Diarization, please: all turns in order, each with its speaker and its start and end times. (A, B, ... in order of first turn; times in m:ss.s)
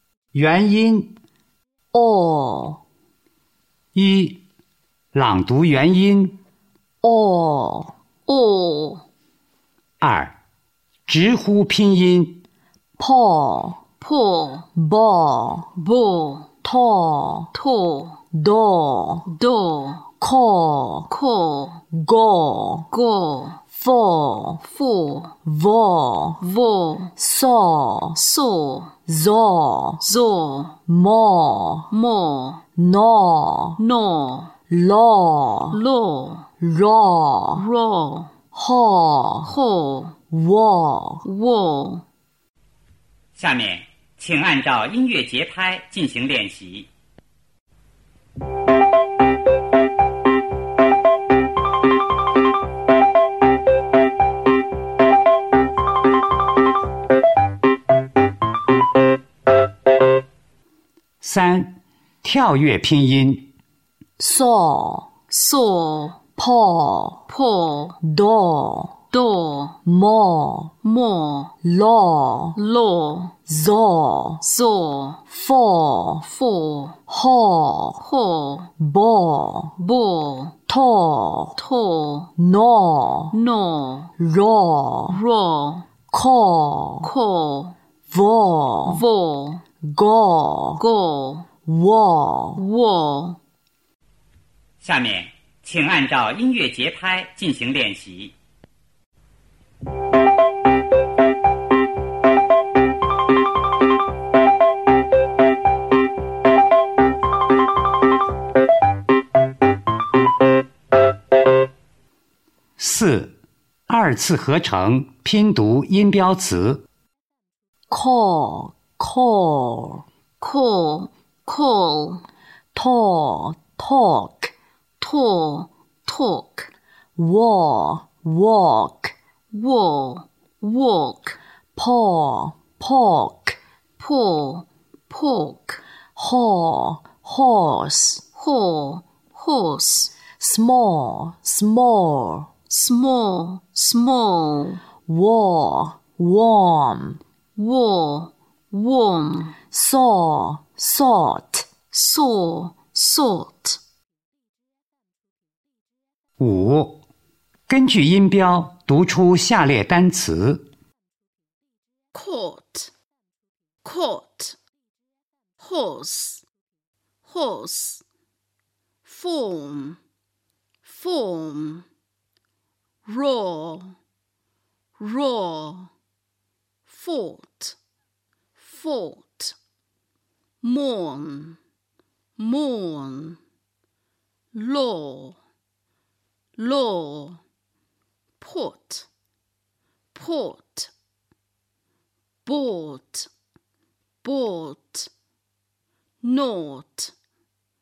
0:00.3-0:01.1 A
0:01.9-0:02.8 B
0:03.9-0:04.4 A
0:05.1-0:06.3 A
0:07.0-0:07.9 B
0:08.3-0:09.0 C
0:10.0-0:10.4 A
0:11.0-0:12.3 A
0:13.0-0:13.8 B
0:14.0-0:14.7 C
0:14.7-0:15.7 B
0:15.7-0:16.5 C
0:16.6-0:17.5 B
0:17.5-0:18.2 C
0:18.3-0:19.3 B
0:19.2-0:20.1 C
0:20.2-0:21.1 B
0:21.1-0:21.8 C
0:21.9-0:22.9 B
0:22.9-0:23.6 C
0:23.7-0:24.6 B
0:24.6-0:25.4 C
0:25.4-0:26.4 B
0:26.4-0:27.1 C
0:27.2-0:28.2 B
0:28.1-0:28.9 C
0:29.0-0:30.1 B
0:30.0-0:30.8 C
0:30.9-0:31.9 B
0:31.9-0:32.6 C
0:32.8-0:33.8 B
0:33.8-0:34.5 C
0:34.7-0:35.8 B
0:35.7-0:36.5 C
0:36.6-0:37.7 B
0:37.5-0:38.3 C
0:38.5-0:39.5 B
0:39.4-0:40.2 C
0:40.3-0:41.2 B
0:41.2-0:42.0 C
0:43.4-0:46.9 D
1:01.2-1:03.4 A
1:04.2-1:05.2 B
1:05.2-1:06.2 C
1:06.4-1:07.3 B
1:07.3-1:08.0 C
1:08.0-1:09.0 B
1:09.1-1:09.8 C
1:09.8-1:10.7 B
1:10.8-1:11.6 C
1:11.6-1:12.6 B
1:12.5-1:13.4 C
1:13.4-1:14.4 B
1:14.4-1:15.2 C
1:15.3-1:16.3 B
1:16.2-1:17.0 C
1:17.1-1:18.0 B
1:18.0-1:18.7 C
1:18.8-1:19.8 B
1:19.8-1:20.6 C
1:20.7-1:21.6 B
1:21.6-1:22.3 C
1:22.4-1:23.4 B
1:23.3-1:24.1 C
1:24.2-1:25.2 B
1:25.1-1:25.9 C
1:26.1-1:27.1 B
1:27.0-1:27.7 C
1:28.1-1:29.0 B
1:28.8-1:29.6 C
1:29.8-1:30.8 B
1:30.8-1:31.5 C
1:31.6-1:32.6 B
1:32.5-1:33.4 C
1:34.8-1:38.3 D
1:52.8-1:53.4 A
1:53.9-1:56.8 A
1:57.9-2:00.0 B
2:00.4-2:02.2 C
2:02.7-2:04.5 B
2:05.0-2:06.7 C
2:07.2-2:09.1 B
2:09.5-2:11.4 C
2:11.8-2:13.6 B
2:14.0-2:15.8 C
2:16.2-2:18.2 B
2:18.3-2:20.2 C
2:20.4-2:22.5 B
2:22.7-2:24.8 C
2:25.0-2:27.2 B
2:27.6-2:29.6 C
2:29.7-2:31.8 B
2:31.9-2:33.8 C
2:36.4-2:37.0 A
2:37.7-2:40.7 A
2:42.1-2:42.9 C
2:43.8-2:44.6 C
2:45.6-2:46.4 C
2:47.2-2:48.0 C
2:49.0-2:50.0 C
2:50.8-2:51.8 C
2:53.0-2:54.0 C
2:55.0-2:55.9 C
2:56.8-2:57.8 C
2:58.6-2:59.5 C
3:00.6-3:01.6 C
3:02.4-3:03.4 C
3:04.5-3:05.4 C
3:06.6-3:07.4 C
3:08.4-3:09.1 C
3:10.1-3:10.9 C
3:12.4-3:13.3 C
3:14.2-3:15.1 C
3:16.2-3:17.1 C